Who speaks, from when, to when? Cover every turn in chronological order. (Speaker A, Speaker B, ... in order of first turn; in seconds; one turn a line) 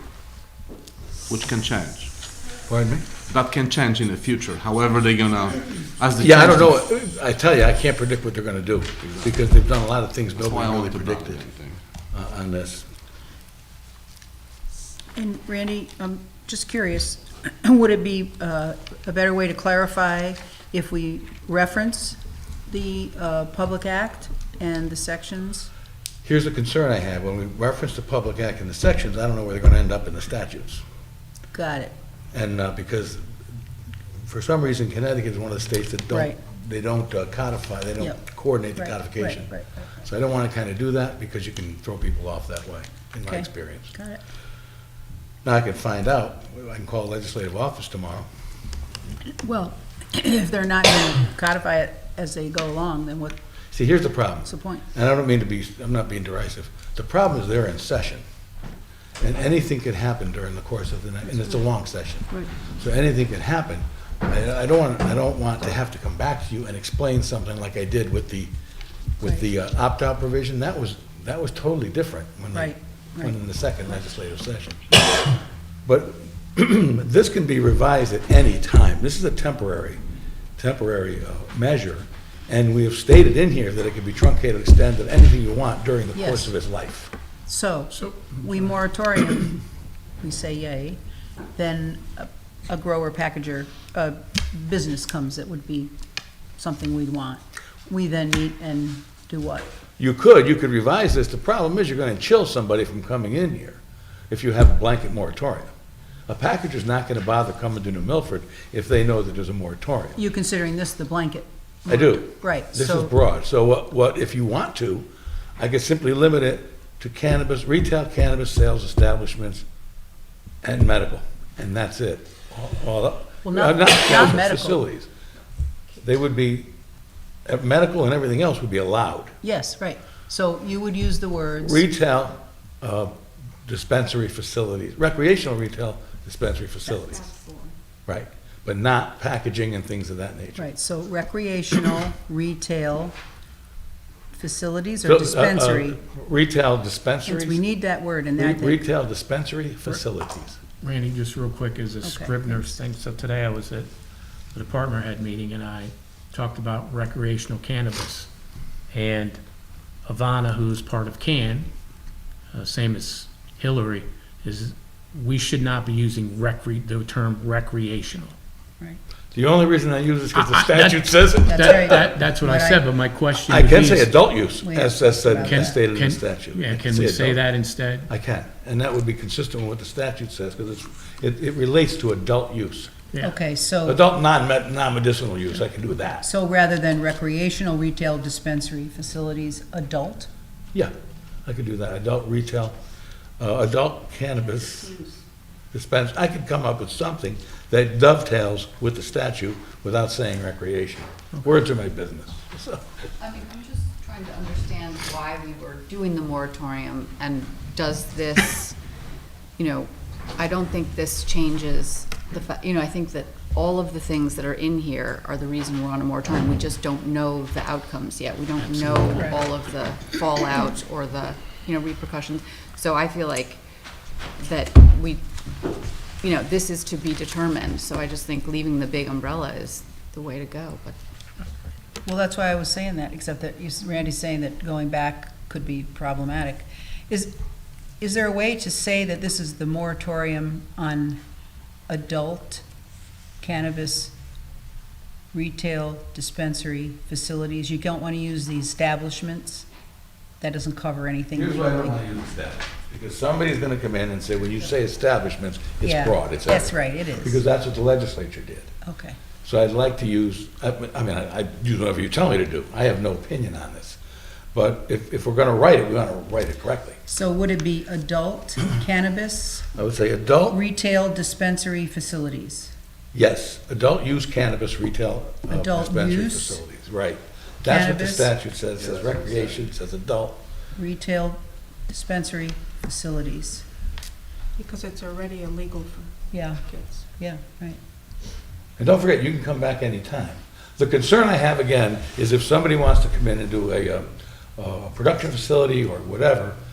Speaker A: 1.3-2.1
Speaker B: 2.7-3.1
Speaker A: 3.3-6.8
Speaker B: 6.2-11.5
Speaker A: 9.1-9.3
Speaker A: 10.4-11.8
Speaker B: 12.1-12.9
Speaker C: 15.2-25.7
Speaker B: 26.2-30.8
Speaker C: 31.5-31.9
Speaker B: 32.3-33.3
Speaker B: 34.2-44.0
Speaker C: 36.1-36.4
Speaker C: 38.8-39.9
Speaker C: 43.3-44.2
Speaker B: 45.4-48.3
Speaker C: 49.3-53.4
Speaker B: 53.7-58.2
Speaker C: 54.5-54.9
Speaker B: 59.2-68.5
Speaker B: 69.2-75.0
Speaker C: 72.5-73.4
Speaker B: 75.9-80.0
Speaker B: 80.6-87.1
Speaker C: 86.2-86.5
Speaker C: 87.5-89.6
Speaker D: 88.0-88.4
Speaker C: 90.2-91.0
Speaker C: 91.5-95.9
Speaker C: 96.6-99.7
Speaker B: 100.0-105.7
Speaker B: 106.3-110.2
Speaker C: 110.2-113.1
Speaker B: 111.9-119.6
Speaker B: 120.6-125.1
Speaker C: 123.4-124.8
Speaker B: 126.0-126.7
Speaker B: 127.5-129.4
Speaker C: 129.4-131.8
Speaker B: 131.6-133.1
Speaker B: 133.7-137.3
Speaker E: 137.4-137.7
Speaker B: 138.1-140.7
Speaker C: 140.6-143.2
Speaker C: 144.3-146.0
Speaker B: 145.0-147.6
Speaker C: 147.2-148.8
Speaker B: 148.4-150.6
Speaker D: 150.8-153.9
Speaker C: 152.0-152.8
Speaker D: 154.5-158.3
Speaker D: 158.9-159.4
Speaker D: 160.1-161.7
Speaker D: 162.5-168.4
Speaker B: 169.3-172.2
Speaker D: 170.3-174.1
Speaker C: 171.5-172.8
Speaker B: 173.5-177.4
Speaker C: 174.6-175.8
Speaker D: 175.5-178.1
Speaker B: 178.1-182.9
Speaker D: 183.1-183.4
Speaker C: 183.2-184.0
Speaker B: 183.9-186.3
Speaker C: 186.2-190.3
Speaker B: 191.5-192.8
Speaker B: 193.4-195.0
Speaker B: 195.7-202.9
Speaker F: 203.2-208.8
Speaker F: 209.6-223.6
Speaker D: 218.6-219.4
Speaker F: 224.4-225.2
Speaker F: 226.2-231.0
Speaker C: 232.1-237.3
Speaker C: 238.0-241.2
Speaker C: 241.9-242.6
Speaker C: 243.4-244.1
Speaker C: 245.3-249.7
Speaker C: 250.4-252.0
Speaker B: 251.3-258.7
Speaker C: 255.8-257.4
Speaker C: 258.8-259.2
Speaker B: 259.4-264.0
Speaker B: 264.5-267.0
Speaker C: 267.1-269.7
Speaker B: 269.7-270.6
Speaker C: 270.5-272.7
Speaker B: 273.1-280.4
Speaker C: 275.5-276.6
Speaker C: 277.7-278.4
Speaker C: 280.8-283.6
Speaker E: 284.6-286.1
Speaker C: 286.3-287.8
Speaker E: 286.7-287.1
Speaker B: 288.8-296.6